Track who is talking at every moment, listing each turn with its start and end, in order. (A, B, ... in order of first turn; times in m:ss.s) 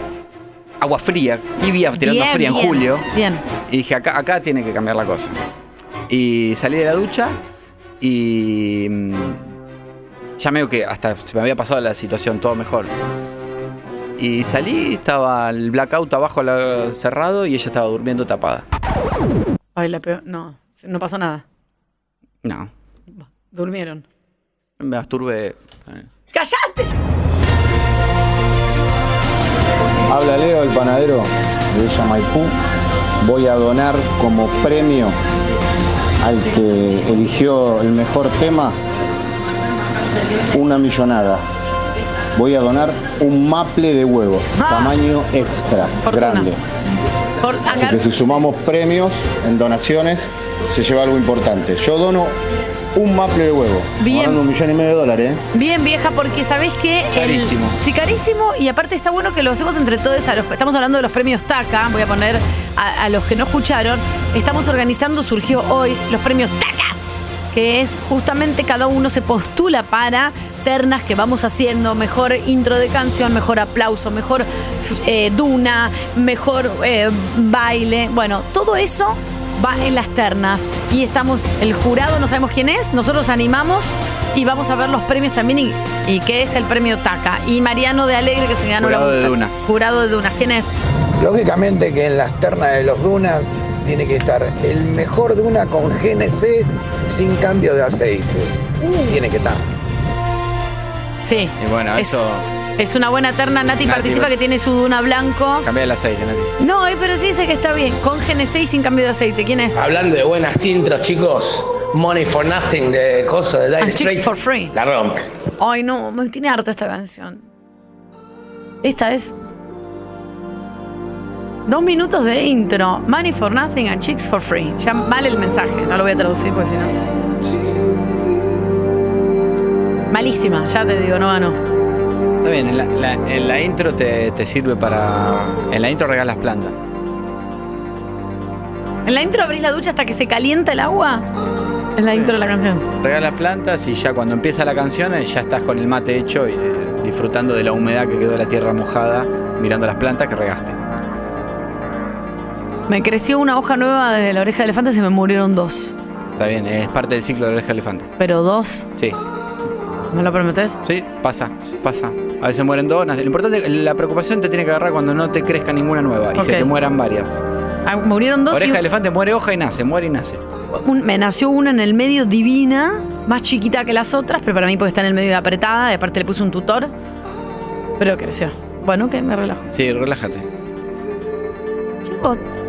0:00.8-0:03.0 A
0:02.0-0:03.4 B
0:03.7-0:05.3 A
0:06.1-0:07.4 A
0:08.0-0:09.4 A
0:10.4-0:12.9 A
0:14.2-0:18.6 A
0:19.8-0:21.4 B
0:22.4-0:22.7 A
0:23.5-0:24.0 B
0:24.8-0:26.1 A
0:26.3-0:27.0 B
0:33.2-0:34.8 C
0:36.2-0:38.7 C
0:40.5-0:41.3 C
0:42.4-0:46.5 C
0:44.5-0:44.9 B
0:46.0-0:46.5 B
0:47.4-0:48.4 B
0:47.9-0:49.0 C
0:50.8-0:52.2 C
0:53.0-0:53.6 C
0:54.0-0:54.4 B
0:55.5-1:07.0 B
0:57.1-0:57.8 A
1:07.5-1:30.7 B
1:28.8-1:29.6 A
1:31.2-1:39.6 D
1:38.8-1:39.1 B
1:41.2-1:45.6 B
1:41.6-1:42.5 A
1:43.8-1:44.3 A
1:45.6-1:46.5 A
1:46.6-1:49.8 B
1:49.8-1:55.3 E
1:53.8-1:54.7 B
1:55.6-1:57.4 B
1:58.8-1:59.3 B
2:01.6-2:06.9 B
2:10.1-2:11.6 B
2:12.4-2:16.7 A
2:19.0-2:21.3 B
2:22.0-2:22.8 B
2:23.0-2:30.8 A
2:32.9-2:35.9 B
2:36.4-2:38.1 A
2:38.2-2:38.9 B
2:40.1-2:40.8 B
2:40.8-2:47.4 A
2:46.4-2:46.7 B
2:47.8-2:48.8 B
2:48.5-2:50.4 A
2:50.8-2:56.9 B
2:58.0-2:59.7 B
2:59.7-3:00.4 A
3:02.0-3:02.4 B